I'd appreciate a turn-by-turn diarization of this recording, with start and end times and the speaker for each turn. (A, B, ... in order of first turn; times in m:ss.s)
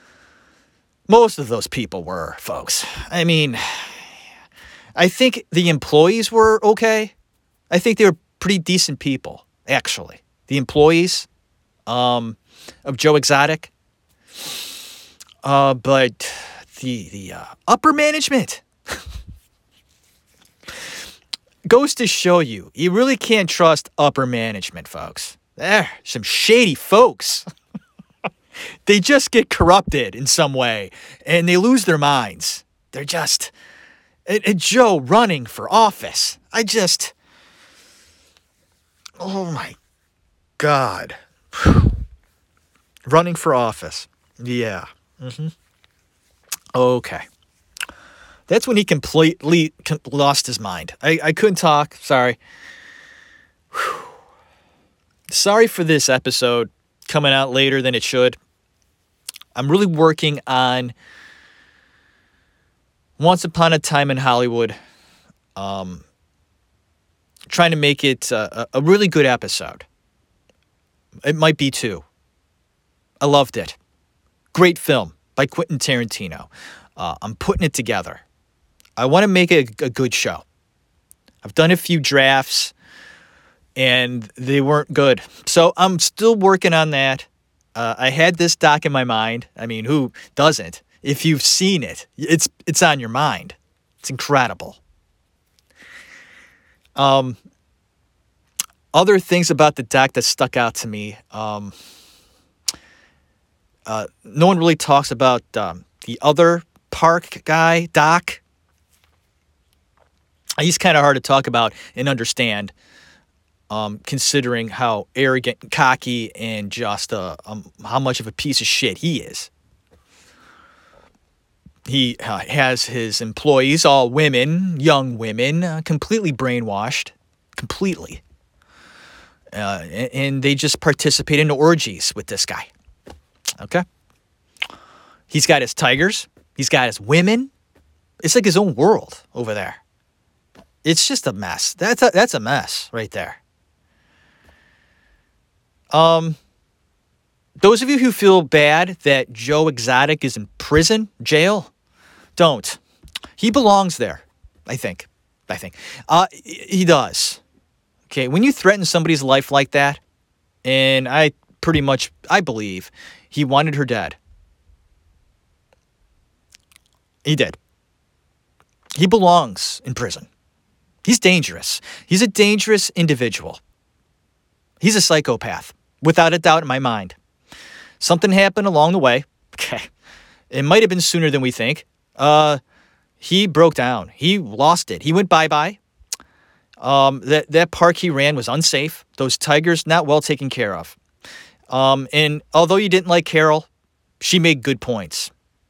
0:01.1-0:04.1 A
0:05.0-0:07.1 A
0:07.7-0:11.3 A
0:11.9-0:13.7 A
0:15.4-0:18.6 A
0:21.7-0:27.4 A
0:28.8-0:33.5 A
0:34.2-0:37.1 A
0:39.2-0:39.8 A
0:40.6-0:41.9 A
0:43.1-0:45.5 A
0:46.7-0:47.2 A
0:48.5-0:52.4 A
0:53.7-0:54.0 A
0:55.3-0:58.4 A
0:59.5-1:00.9 A
1:03.2-1:04.8 A
1:05.6-1:06.0 A
1:07.5-1:09.8 A
1:11.2-1:12.0 A
1:13.2-1:13.8 A
1:14.5-1:18.2 A
1:19.0-1:20.4 A
1:21.4-1:22.7 A
1:23.8-1:34.8 A
1:37.0-1:37.4 A
1:38.9-1:41.7 A
1:43.8-1:48.4 A
1:50.6-1:52.7 A
1:53.7-1:59.5 A
2:01.8-2:08.2 A
2:09.5-2:12.7 A
2:15.3-2:17.5 A
2:18.2-2:19.8 A
2:20.8-2:23.4 A
2:25.9-2:26.4 A
2:27.6-2:31.7 A
2:32.4-2:32.8 A
2:33.4-2:37.4 A
2:38.1-2:40.0 A
2:40.6-2:44.2 A
2:47.2-2:47.6 A
2:48.9-2:50.3 A
2:51.0-2:53.6 A
2:54.8-2:57.2 A
2:58.0-2:59.9 A
3:00.5-3:02.6 A
3:03.2-3:05.8 A
3:06.8-3:11.0 A
3:11.7-3:13.7 A
3:14.2-3:15.3 A